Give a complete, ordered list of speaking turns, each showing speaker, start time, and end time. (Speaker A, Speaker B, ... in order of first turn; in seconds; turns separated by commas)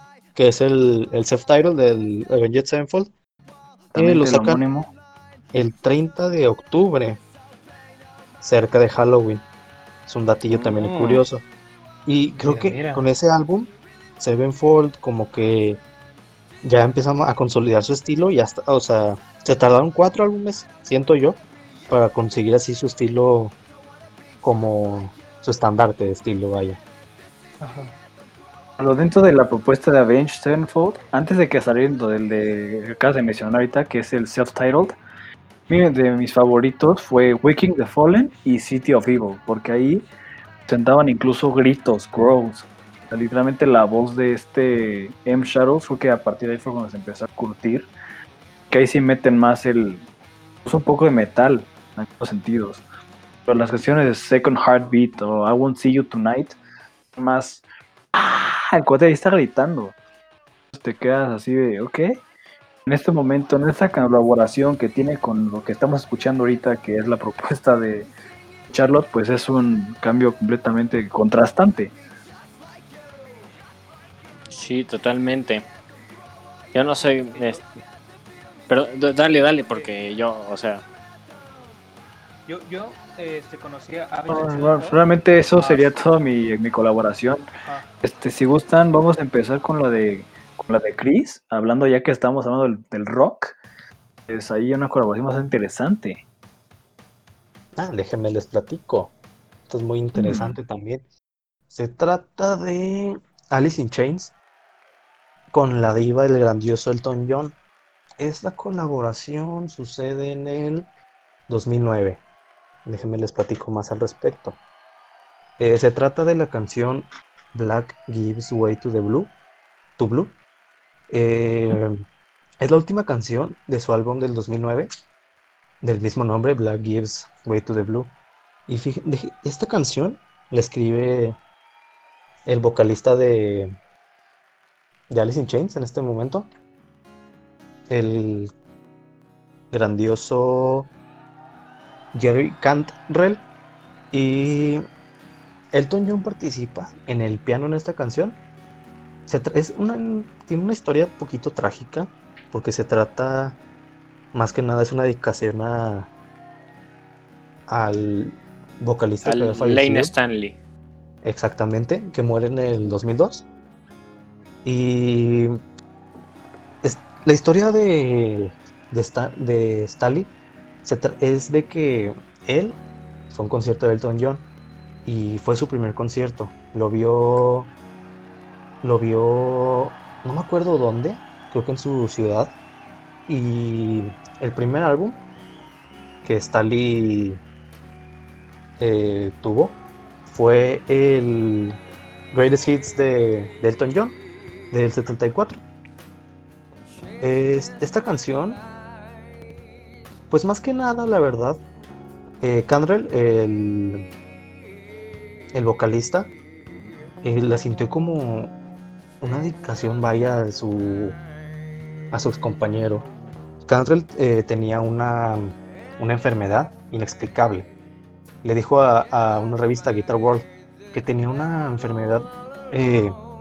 Speaker A: 0.3-3.1, Speaker B: 3.9-4.9, Speaker A: 4.0-4.6, Speaker A: 5.5-7.2, Speaker A: 8.4-9.4, Speaker A: 10.1-11.4, Speaker C: 10.5-11.2, Speaker A: 12.1-15.8, Speaker D: 12.3-13.0, Speaker A: 16.6-23.6, Speaker A: 24.4-26.8, Speaker D: 27.6-27.9, Speaker B: 28.8-34.9, Speaker B: 35.7-40.0, Speaker B: 40.7-47.9, Speaker B: 48.7-50.0, Speaker B: 50.6-52.8, Speaker B: 53.5-56.5, Speaker B: 57.1-57.6, Speaker B: 58.1-59.9, Speaker B: 60.7-62.2, Speaker B: 62.9-68.1, Speaker B: 68.7-71.9, Speaker C: 74.5-75.7, Speaker C: 76.7-77.6, Speaker D: 77.3-77.7, Speaker C: 78.7-80.8, Speaker D: 82.5-85.0, Speaker B: 84.3-87.4, Speaker D: 85.6-85.8, Speaker B: 88.0-93.6, Speaker B: 94.3-96.2, Speaker A: 97.8-99.1, Speaker A: 99.7-101.0, Speaker A: 101.7-104.3, Speaker A: 105.5-107.5, Speaker A: 108.2-110.9, Speaker A: 111.5-112.2, Speaker A: 112.8-114.6, Speaker A: 115.6-119.3, Speaker A: 120.0-120.3, Speaker A: 121.1-122.0, Speaker A: 122.6-124.9, Speaker A: 125.8-128.1, Speaker A: 128.7-131.4, Speaker A: 132.4-133.7, Speaker A: 135.1-136.5, Speaker A: 137.9-138.5, Speaker A: 139.7-140.9, Speaker A: 142.1-143.4, Speaker A: 144.1-144.8, Speaker A: 145.7-148.4, Speaker A: 149.3-153.6, Speaker A: 154.3-156.1, Speaker A: 157.7-160.1, Speaker C: 159.2-160.6, Speaker A: 161.2-163.4, Speaker A: 164.6-165.5, Speaker A: 166.8-170.3, Speaker A: 170.8-172.8, Speaker A: 173.3-174.4, Speaker A: 175.0-177.7, Speaker A: 178.8-182.5, Speaker A: 183.3-185.2, Speaker A: 186.2-187.4, Speaker A: 188.8-191.8, Speaker A: 192.3-194.2, Speaker A: 194.7-195.6, Speaker A: 197.2-198.6, Speaker A: 200.3-201.6, Speaker A: 202.4-204.1, Speaker A: 205.5-206.3, Speaker A: 207.2-208.5, Speaker A: 209.2-211.2, Speaker A: 212.1-213.1, Speaker A: 213.6-217.7, Speaker A: 218.4-223.2